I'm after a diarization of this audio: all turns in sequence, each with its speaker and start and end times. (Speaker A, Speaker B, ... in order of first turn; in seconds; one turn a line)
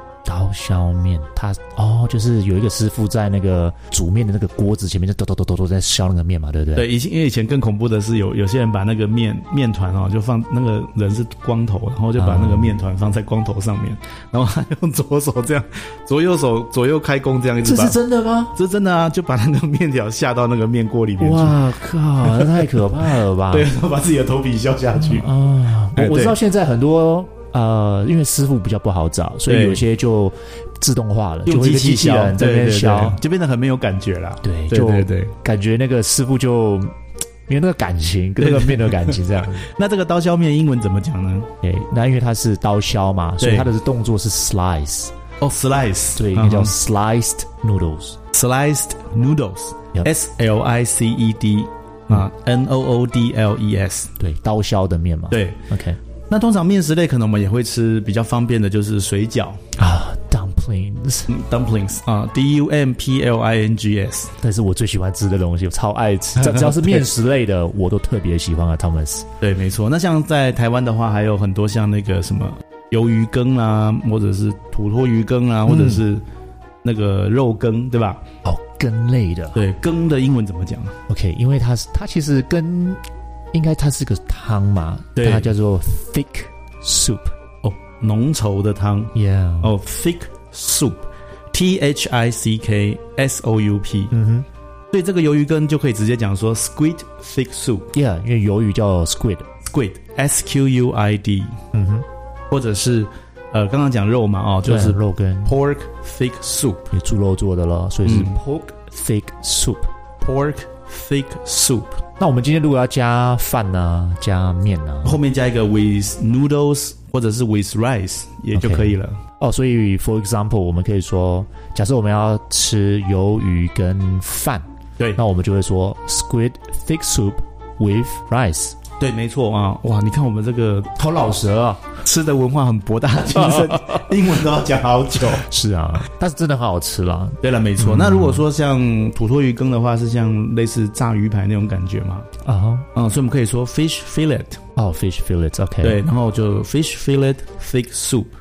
Speaker A: 0.2-6.9
Speaker B: 6.8-18.0
Speaker A: 12.2-12.8
Speaker A: 17.6-18.5
Speaker B: 18.5-21.6
Speaker A: 21.2-23.7
Speaker B: 22.2-25.3
Speaker A: 24.9-33.2
Speaker B: 25.9-26.4
Speaker B: 29.5-29.8
Speaker B: 31.4-35.3
Speaker A: 34.4-36.9
Speaker A: 37.5-39.7
Speaker B: 38.4-41.5
Speaker A: 41.6-45.1
Speaker B: 43.4-43.7
Speaker B: 45.4-46.7
Speaker A: 46.1-48.2
Speaker B: 48.3-54.1
Speaker A: 54.2-56.0
Speaker B: 55.3-55.6
Speaker B: 56.3-59.6
Speaker A: 59.8-61.3
Speaker B: 61.3-64.3
Speaker A: 64.4-69.2
Speaker B: 66.4-67.0
Speaker B: 69.4-76.2
Speaker A: 75.7-76.0
Speaker B: 76.8-78.2
Speaker A: 78.4-79.6
Speaker B: 79.5-81.0
Speaker A: 81.1-83.0
Speaker A: 83.5-87.3
Speaker B: 85.2-85.5
Speaker B: 87.6-94.1
Speaker A: 89.1-89.7
Speaker A: 94.1-94.5
Speaker B: 94.9-97.9
Speaker A: 97.9-99.5
Speaker B: 99.6-101.6
Speaker A: 101.7-102.0
Speaker B: 102.5-106.9
Speaker A: 104.6-105.6
Speaker A: 106.9-109.9
Speaker B: 108.0-108.4
Speaker B: 110.2-112.0
Speaker A: 112.2-115.2
Speaker B: 115.0-119.2
Speaker A: 118.5-128.8
Speaker B: 129.0-130.9
Speaker A: 131.0-131.8
Speaker B: 132.0-135.4
Speaker A: 133.6-134.0
Speaker A: 135.3-138.5
Speaker B: 137.4-142.3
Speaker A: 142.4-142.9
Speaker B: 142.9-144.6
Speaker A: 144.8-146.0
Speaker B: 145.8-148.3